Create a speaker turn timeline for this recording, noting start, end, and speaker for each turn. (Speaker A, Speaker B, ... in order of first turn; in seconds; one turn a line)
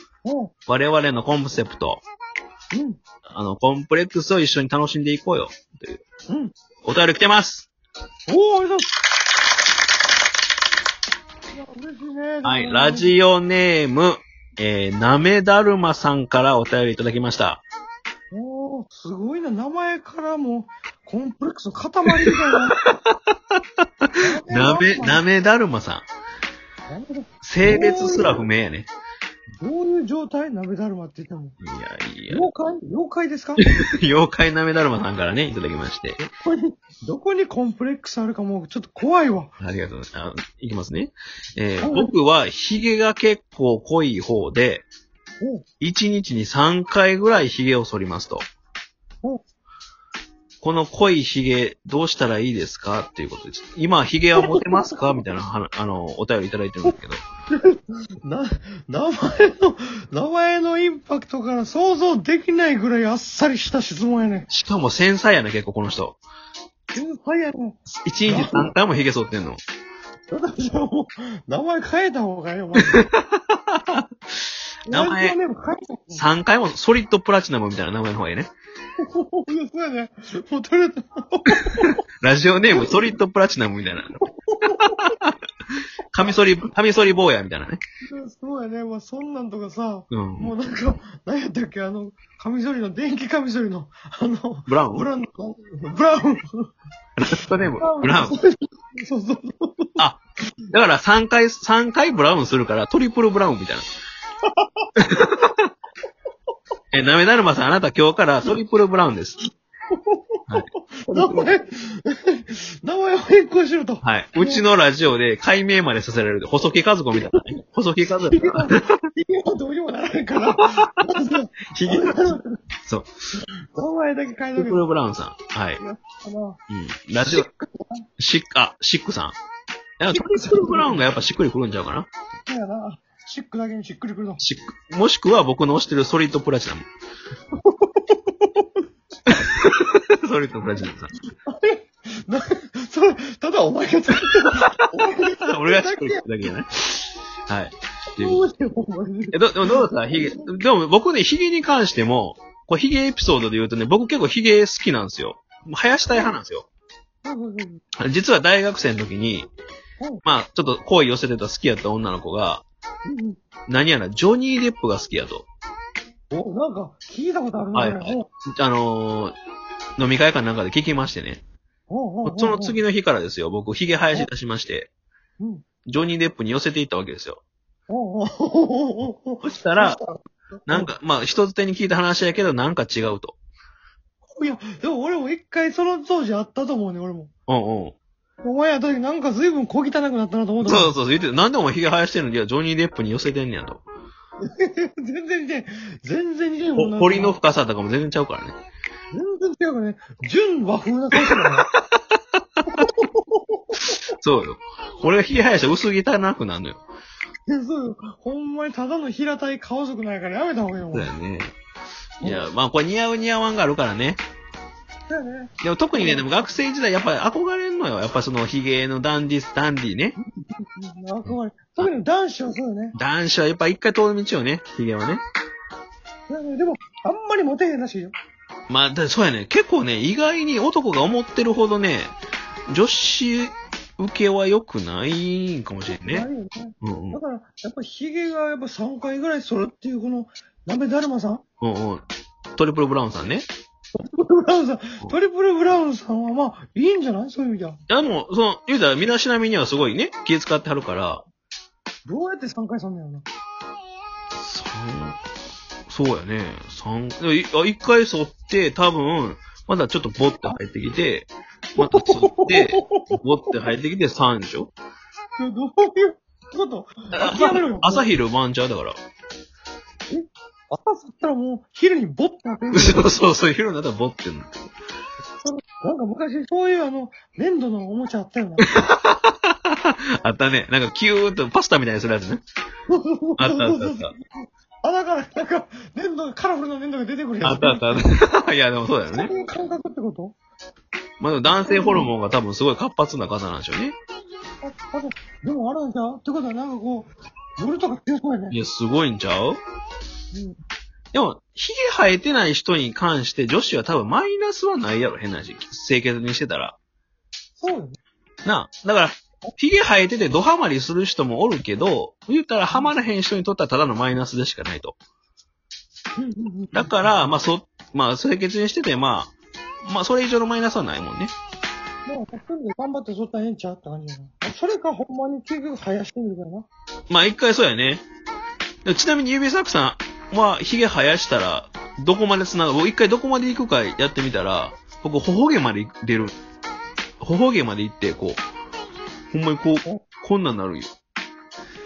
Speaker A: 0.2-0.5
Speaker B: 0.7-2.0
Speaker A: 2.7-3.0
Speaker B: 3.2-6.0
Speaker B: 6.8-7.7
Speaker A: 8.3-8.9
Speaker A: 11.5-13.2
Speaker B: 12.4-17.6
Speaker A: 18.3-22.8
Speaker B: 22.2-23.1
Speaker A: 24.2-25.2
Speaker B: 24.4-26.1
Speaker A: 26.9-28.4
Speaker B: 27.4-28.9
Speaker A: 29.6-31.6
Speaker B: 31.6-32.4
Speaker A: 32.3-33.6
Speaker B: 33.6-36.2
Speaker A: 36.2-39.5
Speaker B: 39.6-44.9
Speaker A: 41.8-42.1
Speaker B: 45.8-48.4
Speaker B: 50.6-57.2
Speaker A: 54.4-54.9
Speaker A: 57.5-64.5
Speaker B: 64.5-66.2
Speaker A: 66.9-68.7
Speaker B: 67.9-69.6
Speaker A: 70.3-73.0
Speaker B: 72.9-74.0
Speaker A: 74.9-76.2
Speaker B: 74.9-75.3
Speaker B: 76.1-78.5
Speaker A: 79.0-82.0
Speaker B: 81.8-87.8
Speaker A: 82.7-83.0
Speaker A: 84.4-85.1
Speaker A: 88.0-96.7
Speaker B: 90.1-90.5
Speaker B: 94.7-95.0
Speaker B: 97.2-98.3
Speaker A: 97.3-100.0
Speaker B: 100.0-103.9
Speaker A: 104.5-104.9
Speaker B: 105.0-105.7
Speaker B: 106.9-109.4
Speaker A: 109.9-114.6
Speaker B: 110.5-111.5
Speaker B: 114.0-119.0
Speaker A: 118.2-122.6
Speaker B: 121.7-122.1
Speaker A: 123.4-124.8
Speaker B: 124.5-125.8
Speaker A: 125.8-126.6
Speaker B: 126.7-127.5
Speaker A: 127.2-128.0
Speaker B: 128.2-129.3
Speaker B: 130.0-132.1
Speaker A: 130.1-131.0
Speaker A: 132.5-134.4
Speaker B: 134.4-136.8
Speaker A: 137.6-138.6
Speaker B: 139.3-141.1
Speaker A: 141.4-146.2
Speaker B: 144.6-144.9
Speaker B: 145.4-148.4
Speaker A: 148.2-150.5
Speaker B: 149.3-156.7
Speaker A: 156.1-156.3
Speaker A: 157.2-157.8
Speaker B: 158.0-159.5
Speaker B: 160.2-162.6
Speaker A: 163.1-163.4
Speaker B: 163.7-165.5
Speaker A: 166.3-168.3
Speaker B: 167.7-169.3
Speaker B: 170.0-171.4
Speaker A: 171.9-172.8
Speaker B: 172.2-174.9
Speaker A: 175.4-175.6
Speaker B: 175.8-177.4
Speaker A: 177.9-180.9
Speaker B: 179.4-180.0
Speaker B: 180.7-183.4
Speaker A: 184.3-187.3
Speaker B: 187.5-187.9
Speaker A: 188.4-190.9
Speaker B: 190.6-193.8
Speaker A: 194.4-197.3
Speaker B: 196.8-198.6
Speaker A: 199.1-201.7
Speaker B: 201.3-202.0
Speaker A: 202.7-203.8
Speaker B: 204.1-206.8
Speaker A: 207.5-211.1
Speaker B: 210.9-211.5
Speaker B: 212.2-214.2
Speaker A: 215.1-216.2
Speaker B: 215.6-220.2
Speaker A: 220.2-222.9
Speaker B: 221.2-221.9
Speaker B: 222.9-225.2
Speaker A: 226.3-228.1
Speaker B: 228.7-232.1
Speaker B: 232.7-236.3
Speaker A: 236.1-241.4
Speaker B: 236.8-237.2
Speaker B: 241.6-242.0
Speaker B: 242.6-243.5
Speaker A: 244.0-247.8
Speaker B: 247.9-251.2
Speaker A: 252.1-253.2
Speaker B: 254.3-255.2
Speaker B: 255.9-264.7
Speaker A: 261.8-263.2
Speaker A: 265.4-268.1
Speaker B: 267.1-268.9
Speaker A: 270.1-273.1
Speaker B: 272.7-274.6
Speaker A: 275.4-278.6
Speaker B: 278.7-282.4
Speaker A: 282.9-284.1
Speaker B: 283.4-284.1
Speaker A: 284.8-288.0
Speaker B: 287.4-289.3
Speaker A: 289.1-290.4
Speaker B: 291.2-293.9
Speaker A: 291.5-292.1
Speaker A: 294.6-298.6
Speaker B: 298.5-299.6
Speaker A: 300.3-300.6
Speaker B: 301.1-306.8
Speaker A: 307.6-308.0
Speaker B: 308.4-315.0
Speaker A: 316.2-317.1
Speaker B: 316.7-319.3
Speaker B: 319.8-321.3
Speaker A: 322.1-326.7
Speaker B: 327.1-328.0
Speaker B: 328.8-336.4
Speaker B: 337.2-338.4
Speaker B: 339.3-340.9